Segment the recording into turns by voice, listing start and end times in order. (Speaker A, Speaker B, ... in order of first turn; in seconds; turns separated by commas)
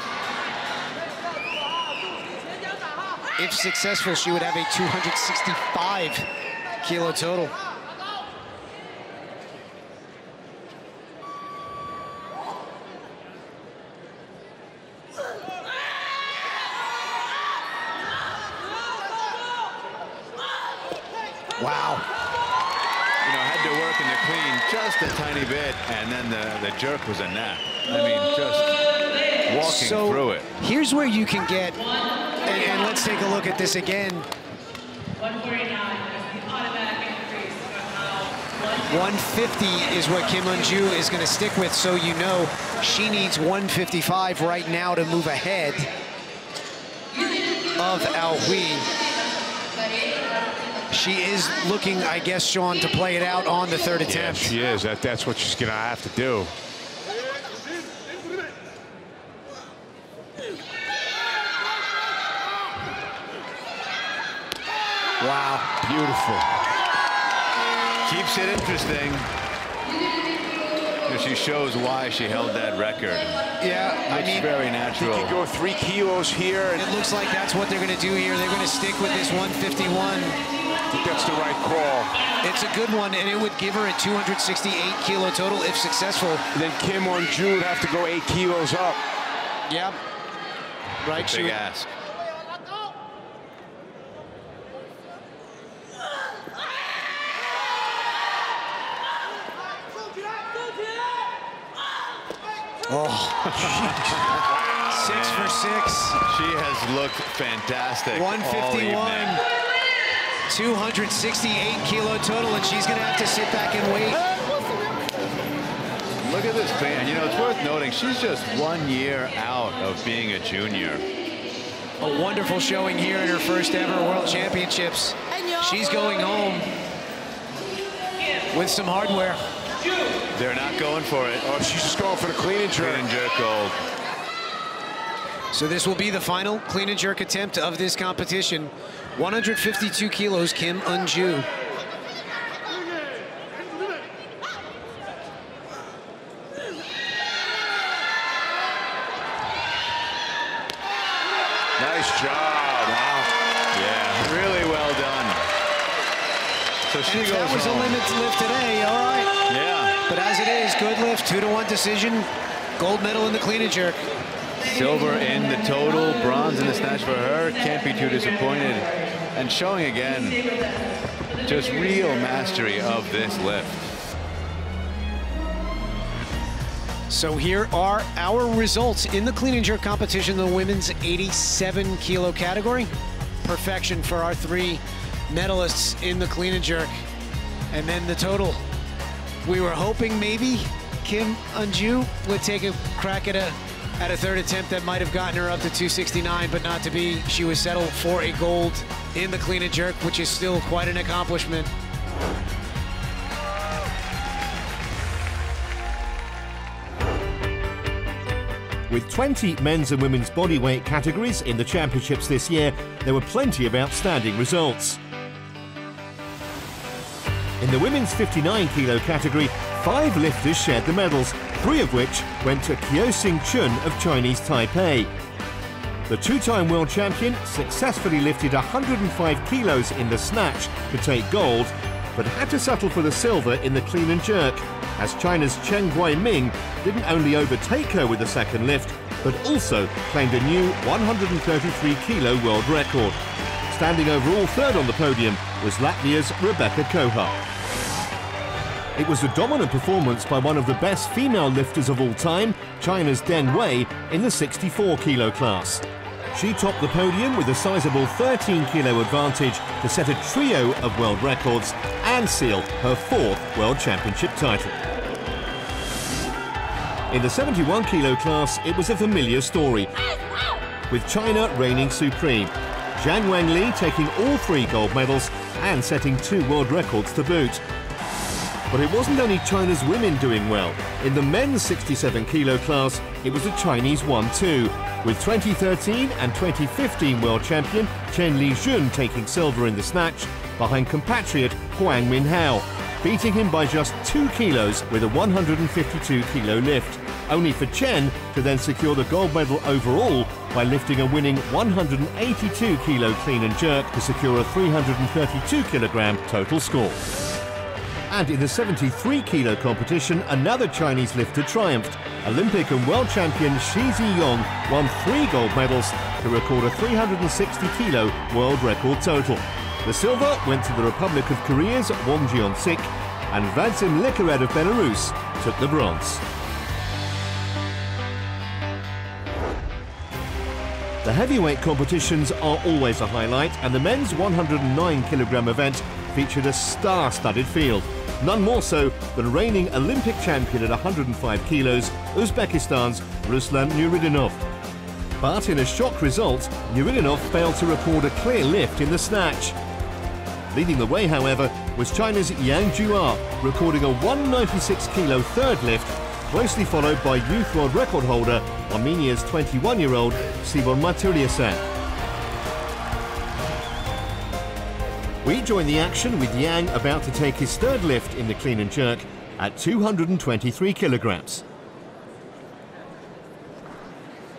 Speaker A: 3.4-6.3, Speaker A: 6.8-7.6, Speaker A: 21.6-22.1, Speaker B: 23.2-28.8, Speaker B: 29.5-30.5, Speaker A: 29.6-31.9, Speaker A: 32.4-34.3, Speaker A: 38.9-45.9, Speaker A: 47.8-48.9, Speaker A: 50.9-54.5, Speaker C: 54.1-56.5, Speaker A: 65.2-65.7, Speaker C: 65.8-66.6, Speaker B: 68.0-69.3, Speaker B: 71.1-73.4, Speaker A: 73.6-74.5, Speaker B: 74.1-75.4, Speaker C: 74.9-76.9, Speaker A: 76.8-80.4, Speaker C: 80.9-82.2, Speaker A: 82.4-86.5, Speaker C: 86.5-89.0, Speaker A: 89.7-90.0, Speaker A: 91.0-91.6, Speaker B: 91.2-91.9, Speaker A: 102.9-103.8, Speaker C: 103.6-104.4, Speaker B: 104.1-105.6, Speaker A: 104.9-106.2, Speaker B: 106.2-109.4, Speaker A: 108.1-109.4, Speaker A: 110.5-114.3, Speaker B: 116.2-121.0, Speaker A: 122.0-126.7, Speaker A: 128.5-129.4, Speaker B: 130.3-131.5, Speaker C: 131.4-133.1, Speaker B: 132.8-133.8, Speaker A: 135.5-141.5, Speaker C: 151.8-153.2, Speaker B: 152.9-155.5, Speaker B: 156.9-158.0, Speaker A: 157.1-159.3, Speaker B: 159.5-160.0, Speaker A: 160.1-164.0, Speaker B: 164.6-170.4, Speaker B: 171.4-173.9, Speaker A: 177.1-182.9, Speaker A: 183.4-186.9, Speaker A: 187.7-188.6, Speaker A: 189.4-201.7, Speaker D: 208.9-215.0, Speaker D: 217.6-225.1, Speaker D: 226.1-243.2, Speaker D: 243.7-247.3, Speaker D: 249.0-264.8, Speaker D: 267.1-269.9, Speaker D: 270.9-277.6, Speaker D: 278.7-307.1, Speaker D: 308.1-326.2, Speaker D: 331.0-344.4, Speaker D: 345.2-349.6, Speaker D: 350.5-361.6, Speaker D: 365.2-371.4